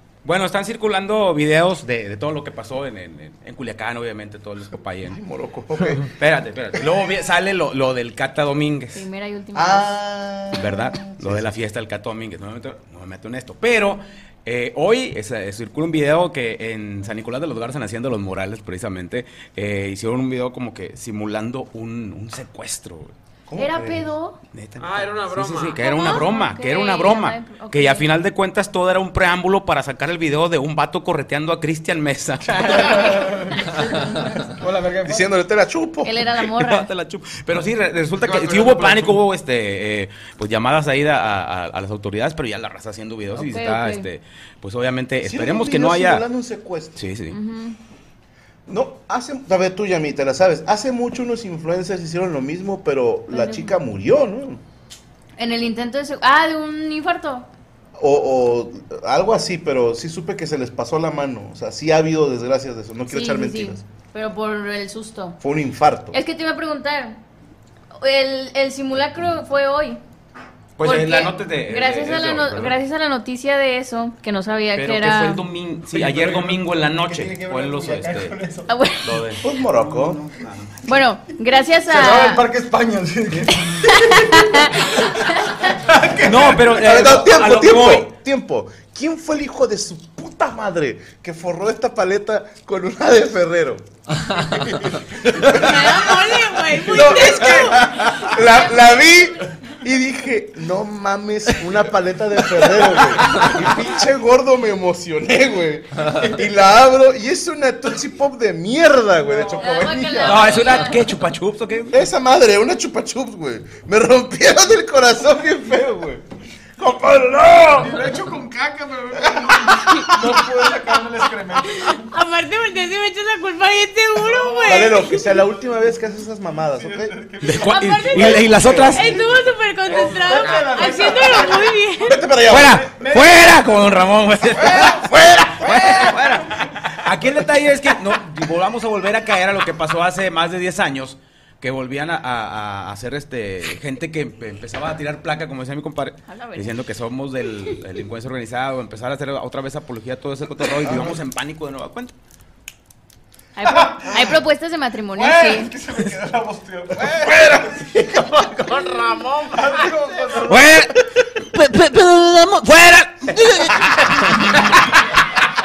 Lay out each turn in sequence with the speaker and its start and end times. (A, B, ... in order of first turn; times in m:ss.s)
0:00.2-0:05.2 A
0:05.0-0:06.1 B
0:06.0-0:09.0 A
0:08.9-0:10.0 C
0:09.5-0:11.5 B
0:10.5-0:23.1 A
0:23.5-0:24.1 B
0:23.6-0:24.4 C
0:24.5-0:33.2 A
0:24.8-0:25.9 D
0:25.8-0:28.1 C
0:32.4-0:35.3 E
0:35.0-0:36.2 B
0:36.0-0:36.9 C
0:36.4-0:46.2 A
0:38.2-0:39.2 E
0:43.3-0:44.0 C
0:45.2-0:47.0 B
0:47.0-0:47.4 A
0:47.3-0:47.8 C
0:48.7-0:54.6 B
0:53.3-0:53.7 C
0:55.4-0:57.5 C
0:58.0-1:03.8 B
1:03.1-1:05.4 C
1:05.4-1:06.2 B
1:06.1-1:07.2 C
1:08.0-1:10.0 C
1:10.8-1:12.8 A
1:10.8-1:15.4 C
1:14.7-1:18.4 A
1:15.9-1:18.7 E
1:18.7-1:19.4 C
1:19.0-1:21.0 A
1:19.4-1:20.2 B
1:20.8-1:22.4 C
1:21.9-1:27.2 E
1:23.9-1:24.7 C
1:26.2-1:28.1 A
1:26.6-1:33.9 B
1:35.2-1:36.1 B
1:35.5-1:38.8 F
1:36.8-1:50.8 B
1:38.3-1:39.3 C
1:49.2-1:50.5 E
1:49.6-1:51.1 C
1:50.2-1:52.0 A
1:51.9-1:56.2 B
1:56.8-1:58.1 B
1:57.8-2:01.8 E
1:59.2-2:00.1 B
1:59.9-2:00.2 F
2:01.6-2:05.1 F
2:04.2-2:05.5 E
2:04.6-2:07.2 B
2:06.7-2:11.8 E
2:07.4-2:09.2 A
2:07.6-2:12.2 F
2:08.6-2:08.9 B
2:10.2-2:10.7 D
2:12.0-2:12.9 B
2:12.5-2:32.1 A
2:12.5-2:13.7 E
2:14.5-2:15.1 E
2:14.8-2:16.1 B
2:15.6-2:16.3 E
2:26.3-2:26.7 C
2:30.9-2:31.1 B
2:33.6-2:35.7 C
2:33.6-2:34.4 E
2:35.1-2:38.7 E
2:37.2-2:37.6 B
2:38.4-2:39.8 D
2:39.4-2:40.8 E
2:40.4-2:44.3 A